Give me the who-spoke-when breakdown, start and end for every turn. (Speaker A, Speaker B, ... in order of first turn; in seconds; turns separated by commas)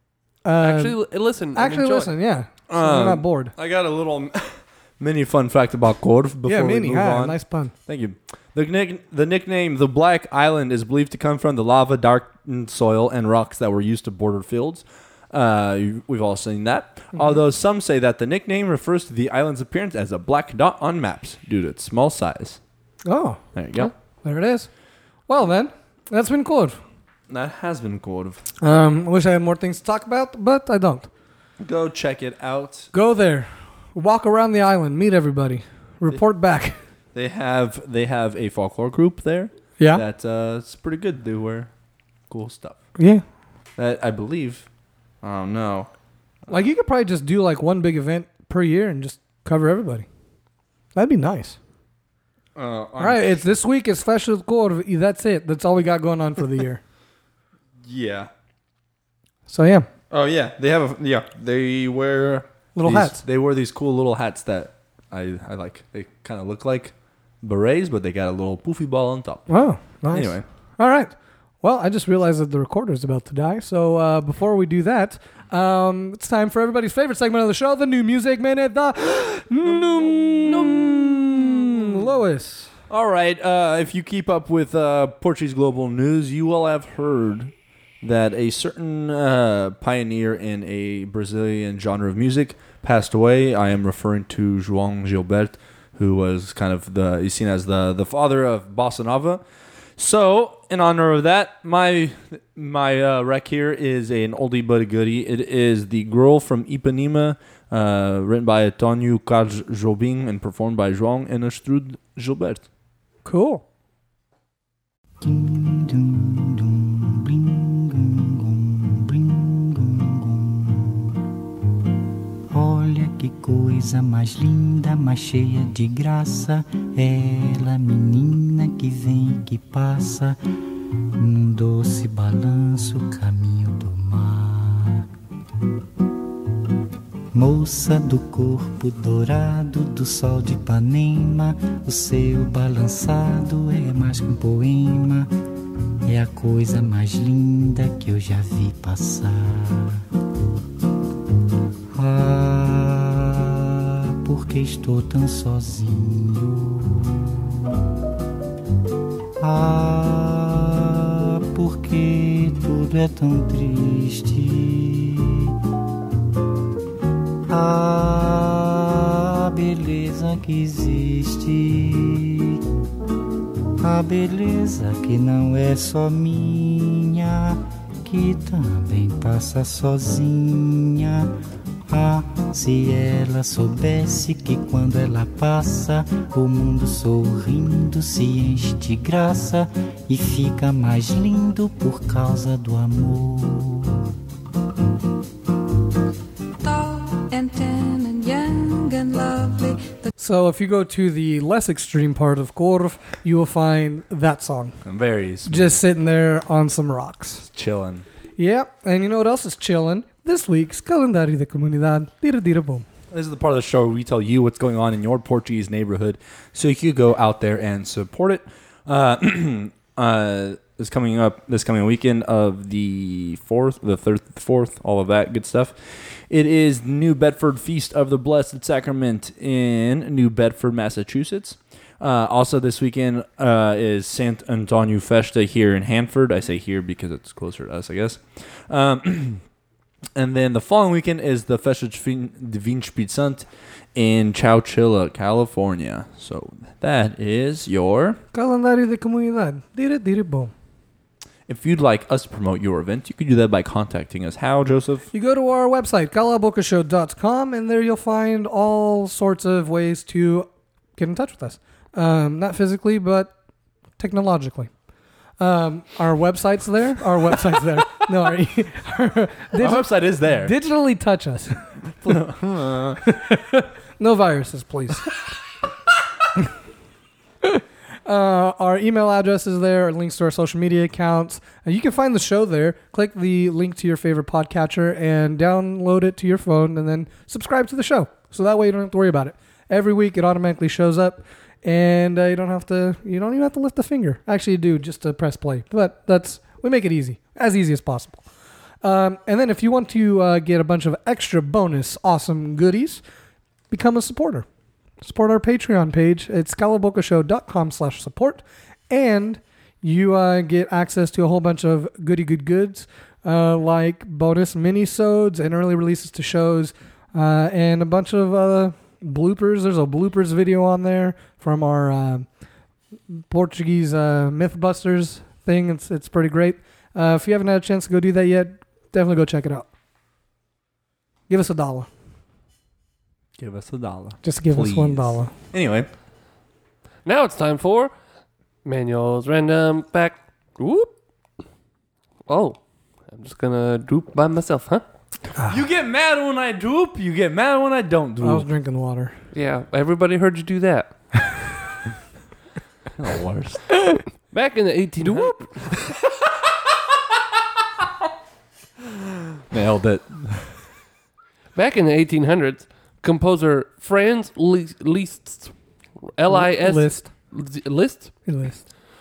Speaker A: 0.4-1.0, Speaker B: 0.6-2.1, Speaker A: 1.5-3.5, Speaker C: 2.7-22.6, Speaker A: 6.5-7.7, Speaker A: 23.1-23.4, Speaker C: 23.5-23.9, Speaker A: 24.2-24.7, Speaker A: 25.3-26.8, Speaker C: 27.3-28.4, Speaker A: 28.6-31.1, Speaker C: 31.6-32.9, Speaker A: 32.9-36.8, Speaker C: 37.1-41.7, Speaker C: 42.3-42.8, Speaker A: 43.0-43.2, Speaker C: 43.8-44.6, Speaker C: 45.2-45.9, Speaker A: 46.5-50.0, Speaker A: 50.9-51.6, Speaker C: 52.5-53.2, Speaker A: 53.0-56.8, Speaker C: 57.8-58.3, Speaker A: 59.5-59.9, Speaker C: 60.1-69.5, Speaker A: 62.7-63.2, Speaker A: 69.5-82.7, Speaker C: 70.1-70.4, Speaker C: 79.6-82.1, Speaker C: 82.9-99.4, Speaker C: 100.0-112.6, Speaker A: 113.2-113.6, Speaker D: 115.2-121.2, Speaker D: 122.5-130.4, Speaker D: 130.9-135.1, Speaker D: 137.3-145.3, Speaker D: 146.1-150.0, Speaker D: 151.9-157.8, Speaker D: 159.4-165.5, Speaker D: 167.5-172.6, Speaker D: 173.8-194.1, Speaker E: 196.6-200.1, Speaker A: 200.2-204.8, Speaker C: 204.8-205.8, Speaker A: 205.4-207.4, Speaker C: 207.5-208.1, Speaker A: 208.4-212.8, Speaker C: 213.1-239.4, Speaker C: 240.2-248.2, Speaker A: 248.3-250.5, Speaker C: 251.5-255.1, Speaker A: 255.1-263.3, Speaker A: 264.0-264.7, Speaker A: 265.4-271.8, Speaker C: 269.6-270.5, Speaker C: 272.0-273.0, Speaker A: 273.0-275.1, Speaker A: 277.4-298.2, Speaker A: 298.8-303.0, Speaker A: 303.7-304.4, Speaker A: 305.0-322.2, Speaker A: 323.1-329.7, Speaker A: 331.3-331.9, Speaker C: 333.4-335.9, Speaker A: 334.2-335.3, Speaker B: 337.0-337.9, Speaker B: 338.6-340.9, Speaker B: 342.2-344.8, Speaker A: 345.4-345.6, Speaker C: 345.5-348.5, Speaker A: 348.2-349.1, Speaker B: 349.3-350.9, Speaker C: 352.9-353.6, Speaker B: 354.3-355.6, Speaker C: 359.5-360.6, Speaker B: 361.5-368.1, Speaker A: 366.3-367.1, Speaker A: 368.2-368.6